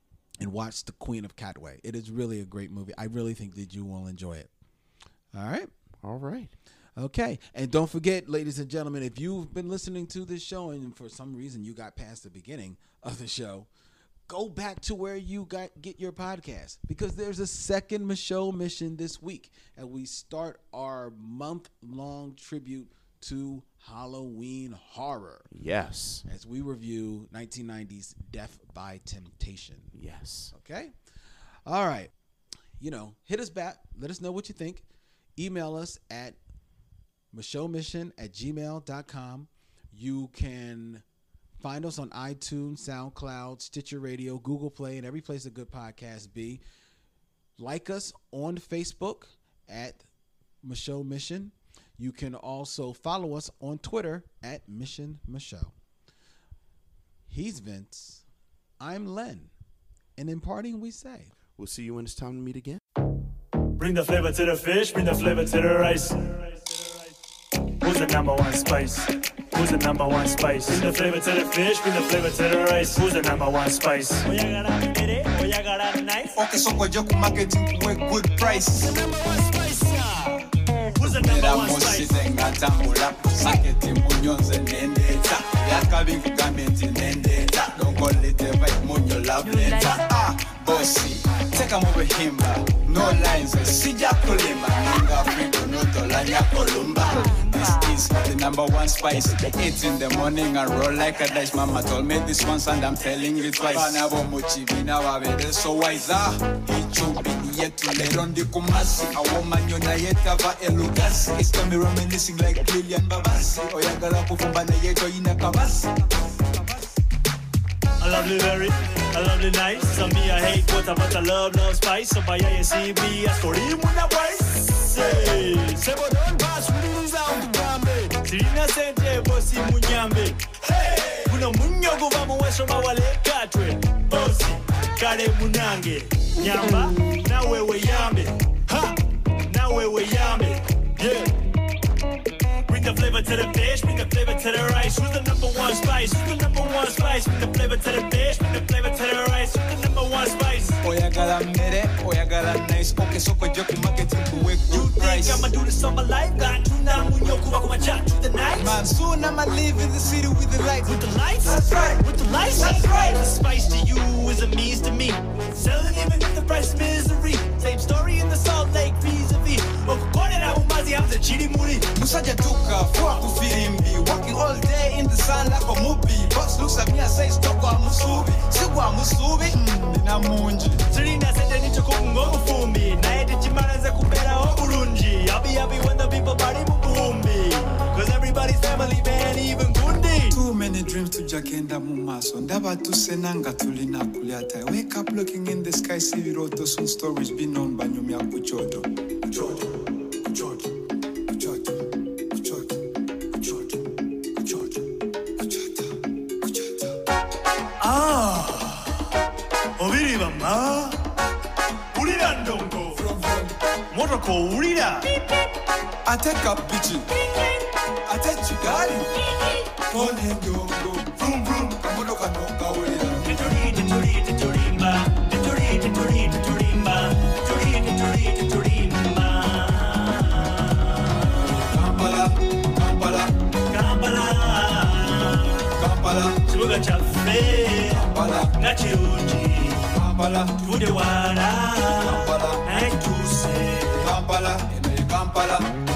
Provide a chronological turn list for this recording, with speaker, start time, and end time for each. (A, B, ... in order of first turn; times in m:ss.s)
0:00.4-0:04.5 A
0:05.3-0:05.7 A
0:06.0-0:06.5 B
0:07.0-0:13.7 A
0:14.3-0:25.5 A
0:25.5-0:26.2 B
0:26.3-0:29.9 A
0:29.9-0:30.5 B
0:30.5-0:30.9 A
0:31.7-0:32.1 A
0:32.8-0:34.8 A
0:35.4-0:36.4 A
0:37.3-0:41.0 A
0:41.6-0:46.6 A
0:47.6-0:50.0 A
0:50.6-0:55.7 A
0:57.3-0:58.2 A
0:58.8-0:59.5 A
1:00.2-1:01.3 A
1:01.6-1:02.8 B
1:03.8-1:07.1 C
1:07.8-1:16.4 C
1:16.4-1:19.0 D
1:18.7-1:22.1 C
1:21.0-1:56.0 D
1:29.4-1:30.0 C
1:36.6-1:37.9 C
1:58.0-2:21.3 C
2:22.7-2:30.8 C
2:30.8-2:35.5 D
2:34.7-2:38.8 C
2:38.6-2:43.1 D
2:40.8-2:52.0 C
2:51.9-3:00.8 D
3:00.9-3:10.4 C
3:10.3-3:20.7 D
3:21.3-3:22.8 D
3:23.3-3:24.8 D
3:25.4-3:26.9 D
3:27.8-3:29.1 C
3:29.8-3:31.0 C
3:31.9-3:33.0 C
3:32.9-3:33.6 D
3:33.9-3:35.2 C
3:36.0-3:37.1 D
3:38.0-3:39.1 D
3:39.8-3:43.3 D
3:43.2-3:51.4 C
3:51.4-3:53.4 D
3:53.7-3:55.7 C
3:55.8-3:56.4 D
3:56.4-3:59.9 C
3:57.9-3:58.6 D
3:59.9-4:00.6 D
4:00.6-4:04.2 C
4:02.0-4:02.6 D
4:04.0-4:05.7 D